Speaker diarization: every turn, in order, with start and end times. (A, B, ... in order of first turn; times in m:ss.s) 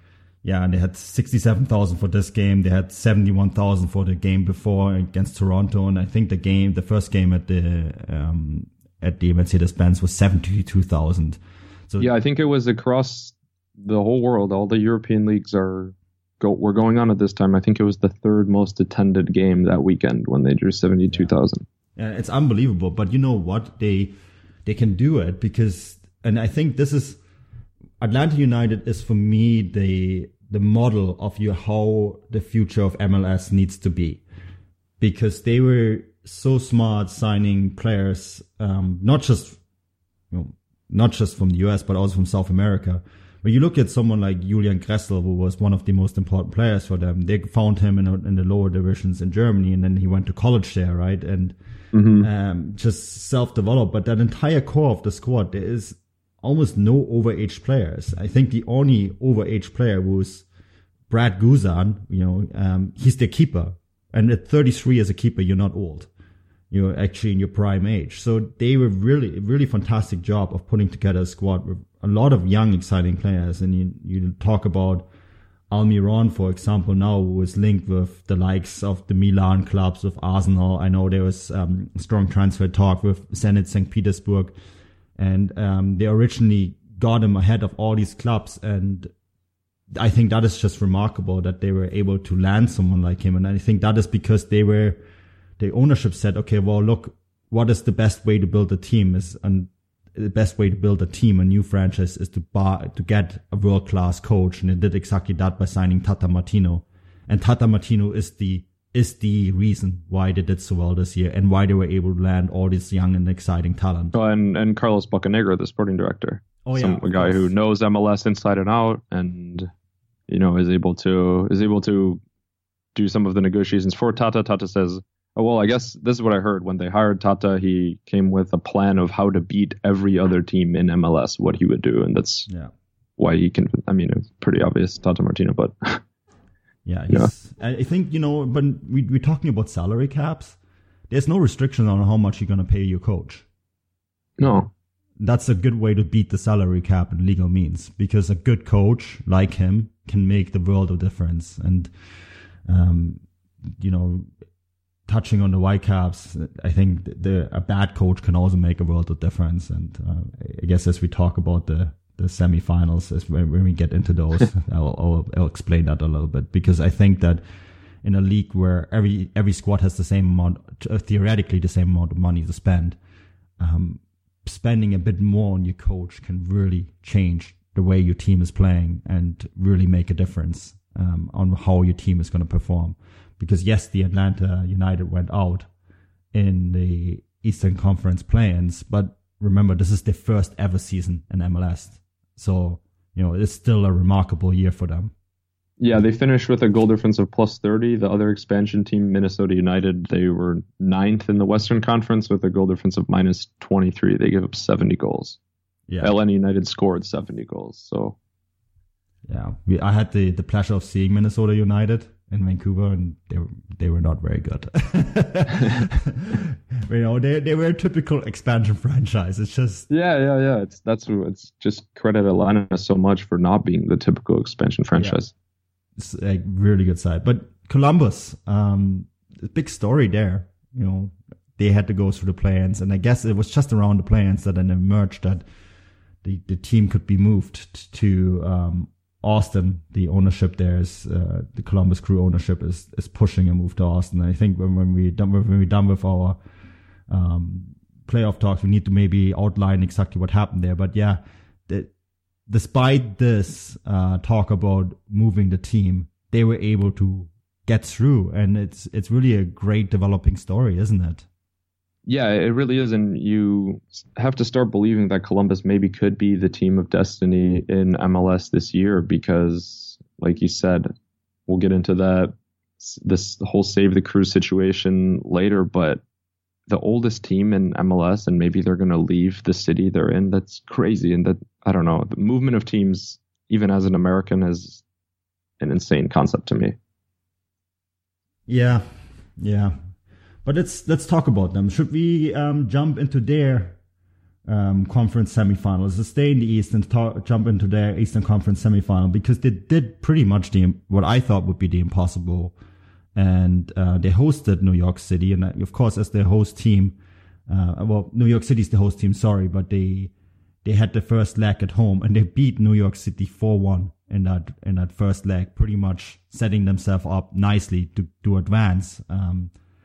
0:00.4-0:12.1 A
0:12.0-0:21.6 B
0:22.0-0:24.1 A
0:24.6-0:27.2 A
0:28.0-0:34.2 A
0:35.0-0:39.6 A
0:40.3-0:51.6 A
0:51.9-0:52.3 B
0:52.2-1:00.4 A
1:01.1-1:06.1 A
1:06.7-1:15.1 A
1:15.7-1:24.5 A
1:25.2-1:29.1 A
1:29.9-1:35.0 A
1:35.6-1:54.2 A
1:54.1-1:59.7 B
1:56.6-1:57.5 A
2:00.3-2:02.2 B
2:02.9-2:12.5 B
2:12.5-2:12.7 A
2:13.2-2:16.0 B
2:16.8-2:20.6 A
2:21.1-2:23.4 A
2:24.4-2:24.7 B
2:25.2-2:31.9 A
2:32.6-2:34.3 A
2:35.1-2:47.4 A
2:48.0-2:53.0 A
2:53.6-3:05.7 A
3:06.3-3:15.1 A
3:15.8-3:25.4 B
3:25.9-3:26.1 A
3:26.0-3:28.2 B
3:29.3-3:39.9 A
3:39.9-3:45.3 B
3:46.0-3:55.4 A
3:56.2-4:06.4 A
4:07.1-4:11.9 A
4:12.5-4:21.2 A
4:22.1-4:30.9 B
4:31.5-4:36.0 B
4:36.7-4:44.8 B
4:45.6-4:46.8 B
4:48.5-4:48.9 A
4:49.4-4:49.8 A
4:50.4-4:53.8 A
4:54.4-5:02.6 A
5:03.1-5:10.1 A
5:10.6-5:19.5 A